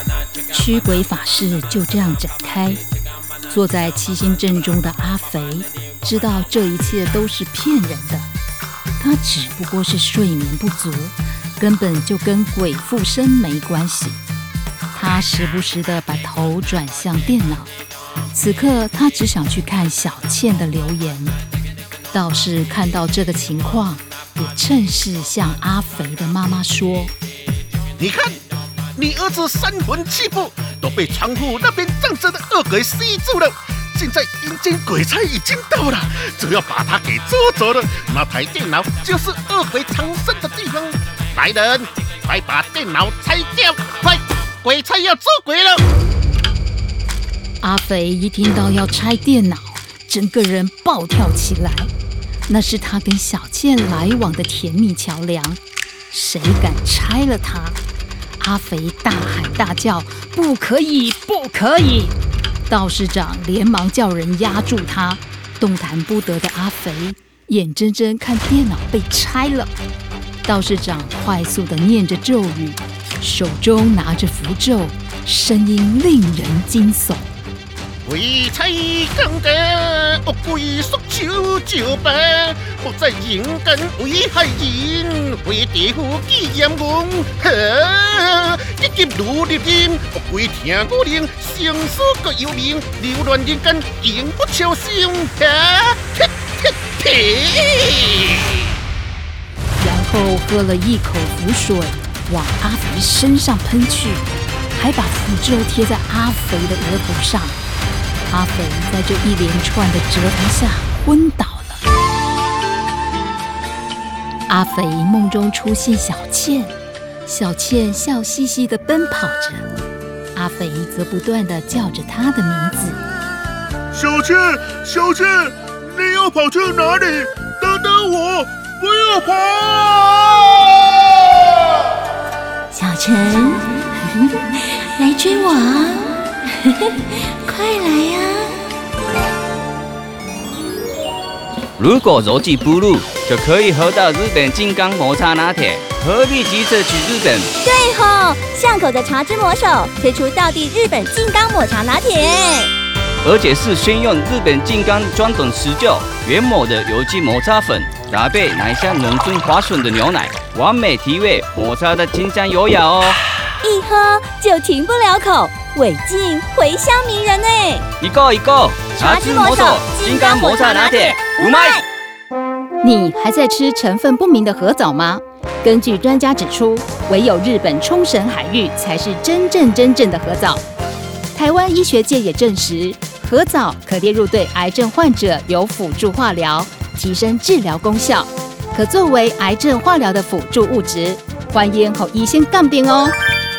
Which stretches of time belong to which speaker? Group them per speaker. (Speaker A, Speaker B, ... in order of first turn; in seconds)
Speaker A: 0.5-2.8, 3.5-8.3, 9.0-14.2, 14.9-17.7, 18.3-21.4, 22.1-27.1, 47.6-51.9, 52.5-55.6, 56.1-57.8, 58.4-62.1, 62.7-69.7, 70.5-77.3, 99.8-107.6, 108.3-111.8, 114.5-116.7, 117.3-119.7, 120.3-123.0, 172.8-180.6, 181.3-193.2
Speaker B: 28.0-28.4, 29.0-45.8, 78.0-98.4
Speaker C: 123.9-131.7
Speaker D: 137.5-138.0, 147.6-152.7, 163.6-167.9, 169.0-171.8
Speaker E: 141.8-147.5, 153.2-163.2, 168.0-171.8